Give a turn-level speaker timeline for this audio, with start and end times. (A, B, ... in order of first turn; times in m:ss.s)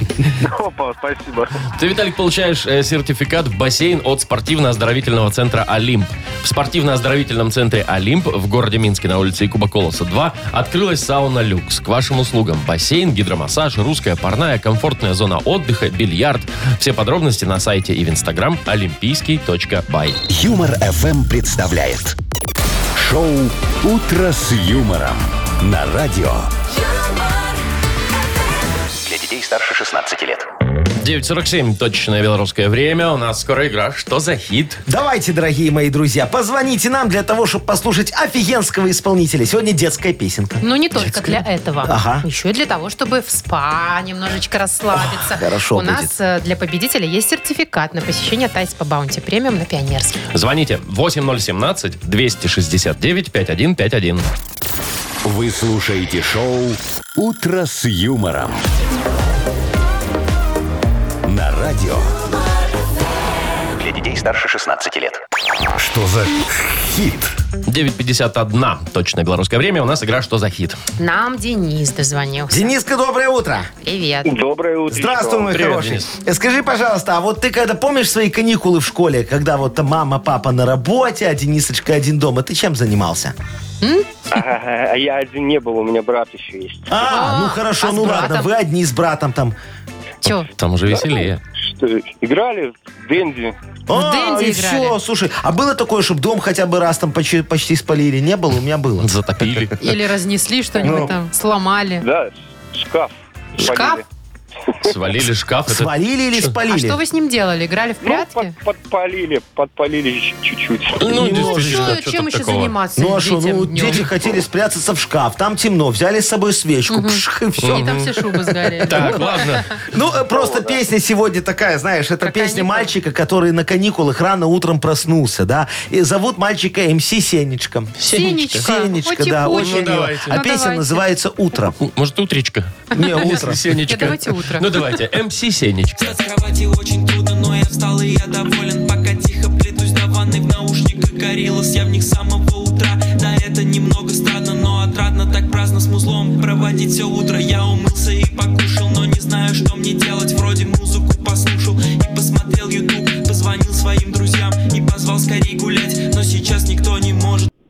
0:00.4-0:01.6 A
0:01.7-0:20.2 B
0:20.3-0:22.2 C
0:22.9-0:26.5 C
0:29.0-0:30.4 D
0:31.0-0:34.8 B
0:34.9-0:41.1 E
0:40.6-0:50.2 F
0:41.8-0:42.2 E
0:44.9-0:46.1 E
0:50.3-0:54.2 B
0:55.2-0:58.6 C
1:01.2-1:02.1 C
1:03.8-1:05.2 D
1:05.7-1:07.3 C
1:07.7-1:10.8 B
1:11.0-1:12.7 F
1:12.5-1:13.7 E
1:13.8-1:14.4 F
1:14.2-1:15.5 A
1:14.9-1:23.3 E
1:15.5-1:16.1 B
1:23.8-1:24.2 F
1:24.3-1:26.9 A
1:26.9-1:29.6 E
1:27.0-1:28.5 F
1:30.2-1:30.5 F
1:30.2-1:31.4 B
1:30.9-1:33.5 A
1:33.9-1:39.9 E
1:33.9-1:35.0 F
1:39.0-1:39.8 B
1:39.8-1:42.0 F
1:40.8-1:41.1 E
1:42.0-1:44.0 A
1:43.6-1:44.0 F
1:44.8-1:46.5 B
1:45.7-1:47.0 E
1:46.7-1:48.5 F
1:48.0-1:51.1 A
1:51.0-1:52.7 B
1:51.1-1:52.0 E
1:51.2-1:54.0 F
1:53.0-1:58.1 E
1:56.9-1:59.7 F
1:57.6-1:58.2 B
1:58.8-1:59.7 B
1:58.8-2:11.8 E
2:00.3-2:00.8 A
2:02.2-2:02.9 F
2:08.0-2:08.7 B
2:08.0-2:11.0 F
2:09.6-2:10.3 B
2:11.8-2:16.2 B
2:12.9-2:13.8 E
2:13.8-2:14.8 F
2:16.0-2:37.5 G